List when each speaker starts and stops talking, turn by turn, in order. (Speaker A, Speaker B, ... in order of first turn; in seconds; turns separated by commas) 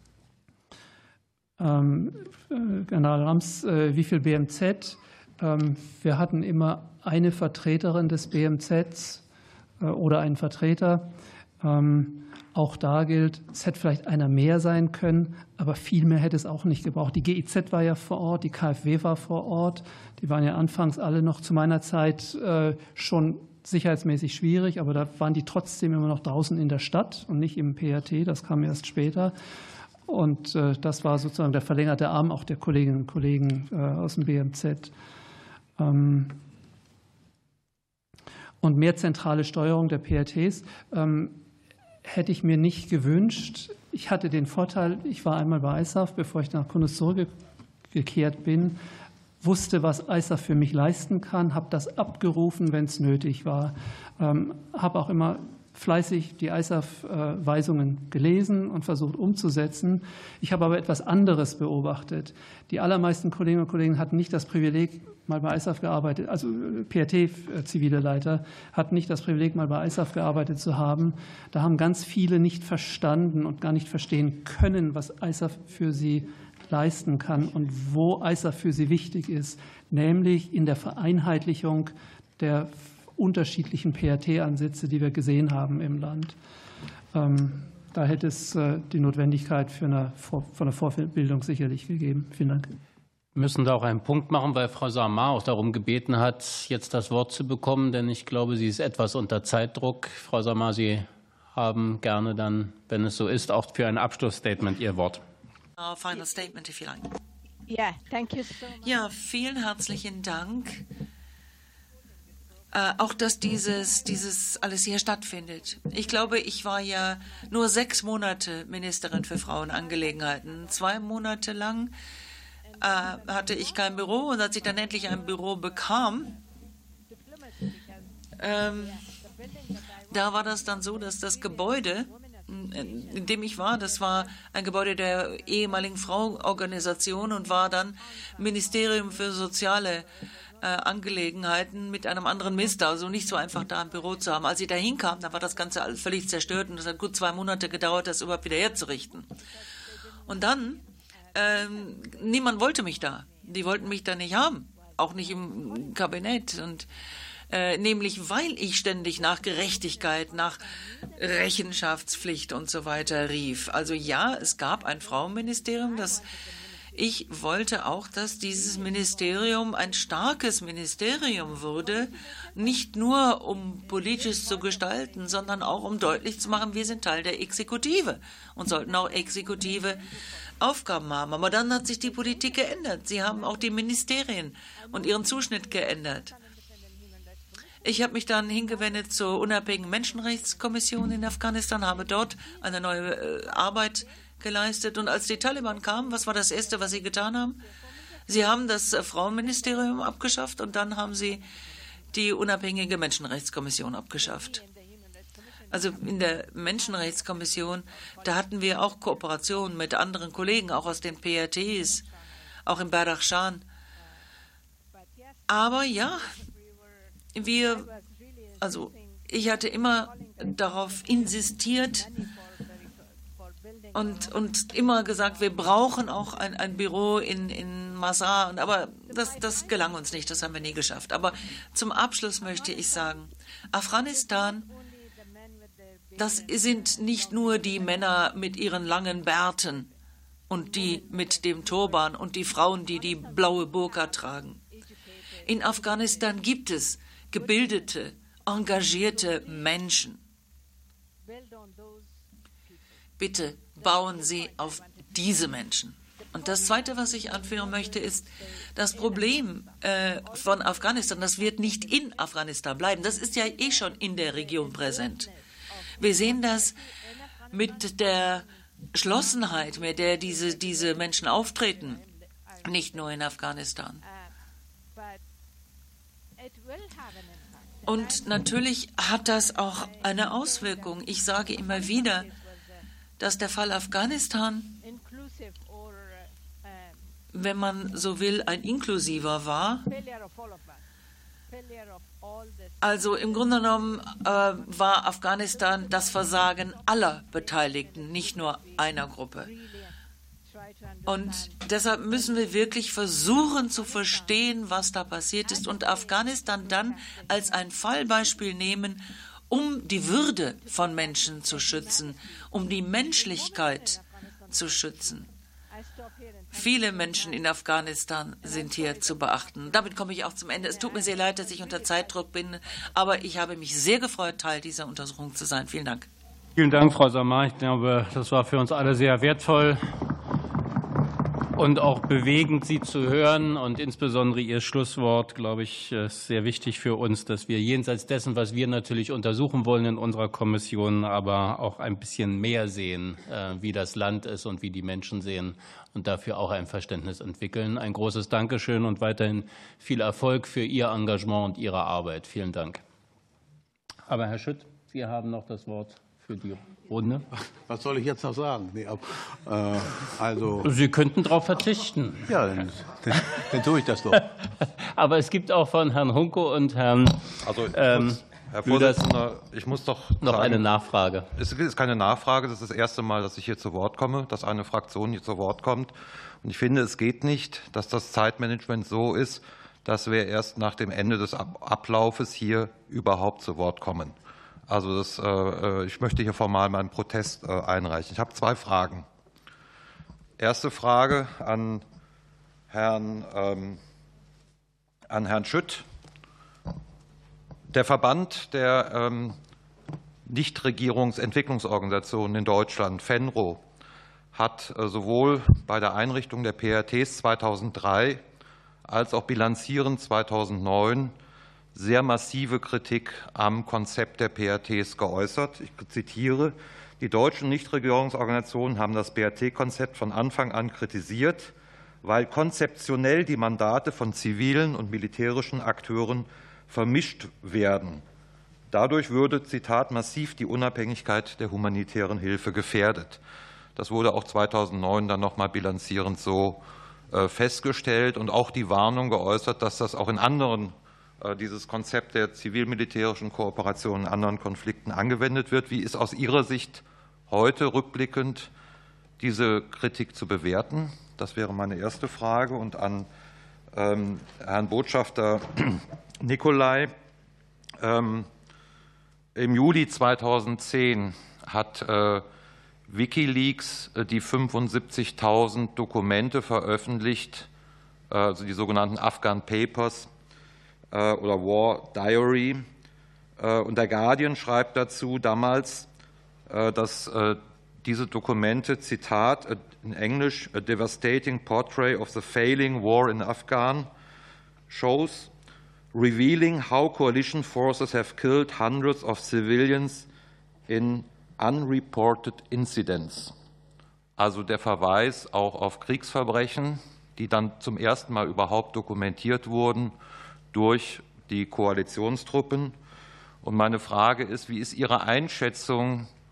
Speaker A: 1.6-9.2, Speaker A: 9.8-29.4, Speaker A: 30.1-34.9, Speaker A: 35.8-36.4, Speaker A: 38.6-41.4, Speaker A: 42.0-47.3, Speaker A: 47.9-48.8, Speaker A: 49.4-86.4, Speaker A: 87.1-92.7, Speaker B: 93.3-105.2, Speaker C: 105.8-107.2, Speaker D: 107.7-109.1, Speaker C: 108.8-110.8, Speaker C: 112.7-121.9, Speaker D: 119.6-121.2, Speaker D: 122.7-126.4, Speaker C: 122.8-126.3, Speaker D: 127.1-139.8, Speaker C: 128.4-129.0, Speaker C: 130.1-149.3, Speaker D: 140.4-140.8, Speaker D: 142.3-145.9, Speaker D: 147.7-148.5, Speaker D: 149.5-150.5, Speaker C: 150.3-150.8, Speaker C: 151.3-156.9, Speaker D: 151.4-156.2, Speaker C: 157.5-166.2, Speaker D: 159.3-160.4, Speaker D: 161.3-161.7, Speaker D: 163.2-167.0, Speaker C: 166.9-180.1, Speaker D: 168.5-170.3, Speaker D: 171.8-172.9, Speaker D: 173.8-177.1, Speaker D: 178.7-180.2, Speaker C: 180.6-186.3, Speaker D: 182.0-184.1, Speaker D: 184.7-191.1, Speaker C: 187.8-197.6, Speaker D: 191.9-201.4, Speaker C: 198.3-201.4, Speaker C: 202.1-204.6, Speaker D: 202.1-202.4, Speaker D: 204.2-210.1, Speaker C: 205.7-212.0, Speaker D: 211.1-212.6, Speaker C: 212.7-213.6, Speaker D: 214.0-214.3, Speaker D: 214.9-231.2, Speaker C: 215.5-216.3, Speaker C: 217.3-217.9, Speaker C: 218.6-222.1, Speaker C: 223.9-234.7, Speaker D: 231.9-233.3, Speaker D: 234.1-239.9, Speaker C: 236.2-239.9, Speaker C: 240.5-244.6, Speaker D: 240.6-246.5, Speaker C: 245.4-250.2, Speaker D: 247.3-248.1, Speaker D: 248.6-250.0, Speaker D: 251.2-274.4, Speaker C: 253.2-265.3, Speaker C: 266.0-266.8, Speaker C: 267.5-272.0, Speaker C: 272.6-274.0, Speaker D: 274.9-275.2, Speaker D: 276.4-282.9, Speaker C: 277.9-282.3, Speaker C: 283.2-284.8, Speaker D: 284.8-287.1, Speaker C: 287.3-289.9, Speaker D: 289.9-290.9, Speaker D: 291.5-304.6, Speaker C: 292.8-299.5, Speaker C: 301.1-314.0, Speaker D: 305.4-308.6, Speaker D: 310.3-322.4, Speaker C: 314.5-315.3, Speaker C: 316.5-326.1, Speaker D: 323.0-323.4, Speaker B: 326.6-330.0, Speaker B: 331.6-352.8, Speaker B: 354.1-357.3, Speaker E: 357.3-360.7, Speaker B: 360.6-362.3, Speaker E: 362.3-364.3, Speaker B: 364.1-369.0, Speaker F: 367.4-370.6, Speaker B: 370.2-371.3, Speaker F: 371.4-384.2, Speaker F: 384.7-389.1, Speaker F: 390.4-391.8, Speaker F: 392.7-393.8, Speaker F: 395.1-395.9, Speaker F: 397.7-399.4, Speaker F: 400.3-403.6, Speaker F: 404.3-408.2, Speaker F: 408.9-411.1, Speaker F: 411.7-428.0, Speaker F: 428.7-433.2, Speaker F: 433.8-436.6, Speaker F: 437.1-448.5, Speaker F: 449.2-453.1, Speaker F: 453.7-456.9, Speaker F: 457.8-458.3, Speaker F: 459.4-462.2, Speaker F: 462.9-467.5, Speaker F: 468.1-470.1, Speaker F: 470.9-472.6, Speaker F: 473.4-475.9, Speaker F: 476.5-483.9, Speaker F: 484.7-485.3, Speaker F: 485.9-490.1, Speaker F: 490.7-493.3, Speaker F: 494.2-499.9, Speaker F: 500.5-502.8, Speaker F: 503.4-506.1